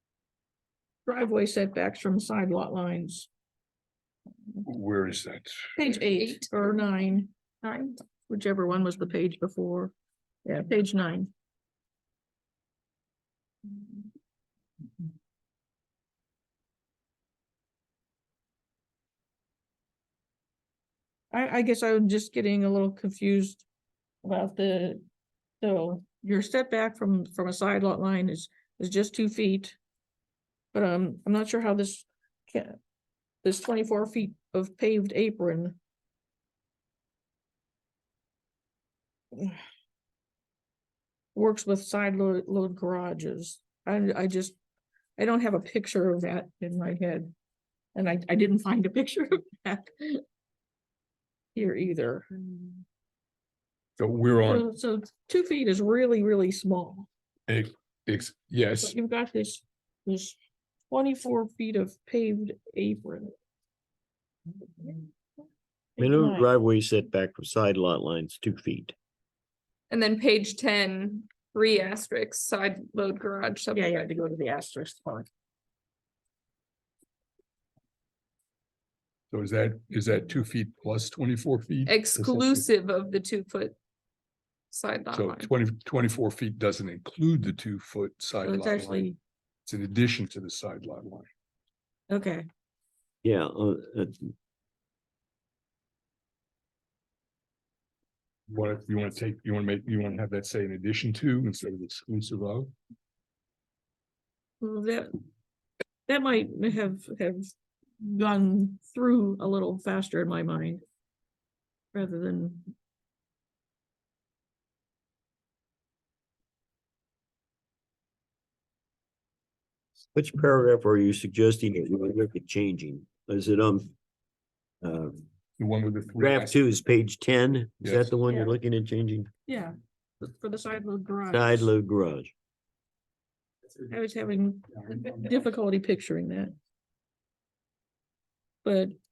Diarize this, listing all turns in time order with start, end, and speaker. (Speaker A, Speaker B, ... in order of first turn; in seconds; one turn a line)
Speaker A: 1.1-3.3
Speaker B: 4.7-5.7
Speaker A: 5.8-9.9
Speaker C: 5.9-6.5
Speaker A: 10.4-11.3
Speaker A: 21.3-23.6
Speaker A: 24.2-25.0
Speaker A: 25.6-29.8
Speaker A: 30.7-32.8
Speaker A: 33.4-35.8
Speaker A: 39.3-39.6
Speaker A: 41.4-44.6
Speaker A: 45.2-47.3
Speaker A: 47.9-50.2
Speaker A: 51.5-52.3
Speaker B: 54.0-54.7
Speaker A: 54.4-57.1
Speaker B: 57.5-59.0
Speaker A: 58.8-60.4
Speaker A: 60.9-63.3
Speaker A: 66.0-66.5
Speaker D: 66.0-68.9
Speaker C: 69.9-74.1
Speaker A: 73.7-75.3
Speaker B: 79.3-82.7
Speaker C: 81.9-83.8
Speaker C: 84.7-85.5
Speaker B: 85.1-89.1
Speaker A: 88.4-89.2
Speaker B: 89.7-91.3
Speaker A: 92.1-92.5
Speaker D: 93.2-94.3
Speaker B: 98.5-102.7
Speaker A: 104.6-105.1
Speaker A: 106.1-110.8
Speaker A: 111.9-112.7
Speaker D: 120.2-123.9
Speaker D: 124.8-125.2
Speaker B: 125.6-126.5
Speaker D: 126.2-129.3
Speaker A: 128.3-128.5
Speaker A: 129.5-131.7
Speaker D: 131.3-132.3
Speaker A: 133.9-136.6
Speaker A: 138.6-138.9